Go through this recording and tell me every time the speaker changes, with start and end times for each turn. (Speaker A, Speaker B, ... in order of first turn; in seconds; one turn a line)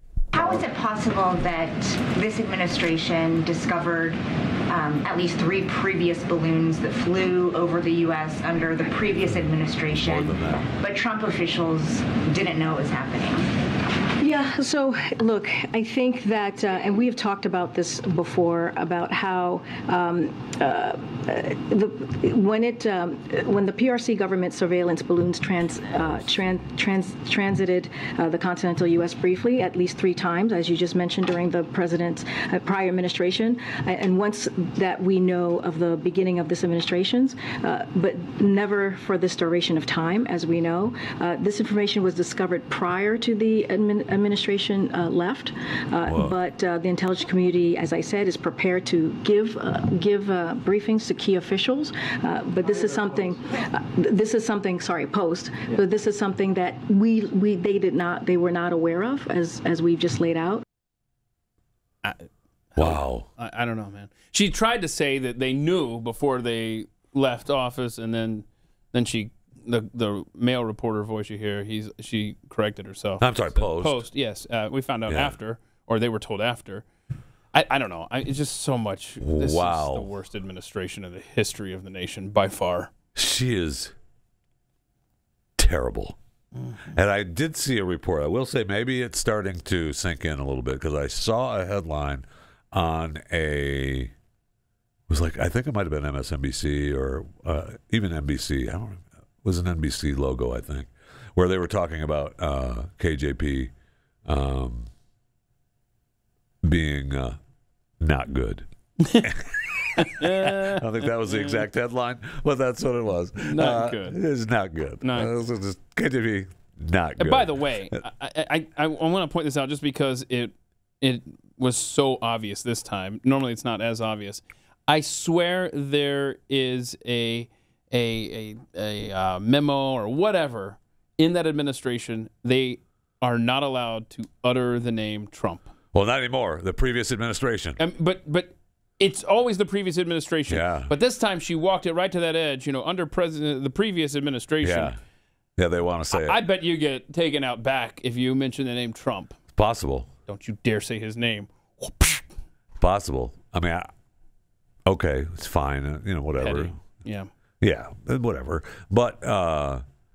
Speaker A: 0.3-13.4
Speaker B: 9.9-10.6
Speaker C: 14.2-60.6
Speaker B: 46.1-46.4
Speaker D: 62.0-76.8
Speaker B: 62.8-63.3
Speaker B: 73.2-74.0
Speaker B: 75.1-75.3
Speaker D: 77.5-82.9
Speaker B: 79.2-80.1
Speaker B: 83.1-83.9
Speaker B: 85.6-86.2
Speaker D: 86.6-86.9
Speaker B: 86.9-94.1
Speaker B: 95.1-103.7
Speaker B: 104.3-104.9
Speaker B: 106.6-107.4
Speaker B: 108.0-108.7
Speaker B: 109.2-117.6
Speaker D: 109.9-111.6
Speaker D: 113.4-114.2
Speaker D: 115.0-115.3
Speaker D: 117.2-135.7
Speaker B: 135.9-137.8
Speaker D: 137.8-145.0
Speaker B: 140.5-140.9
Speaker B: 144.6-145.0
Speaker B: 145.6-146.4
Speaker D: 146.1-149.4
Speaker B: 149.5-150.1
Speaker D: 150.3-152.2
Speaker B: 152.8-153.9
Speaker B: 154.9-156.8
Speaker D: 156.4-157.3
Speaker B: 157.6-159.8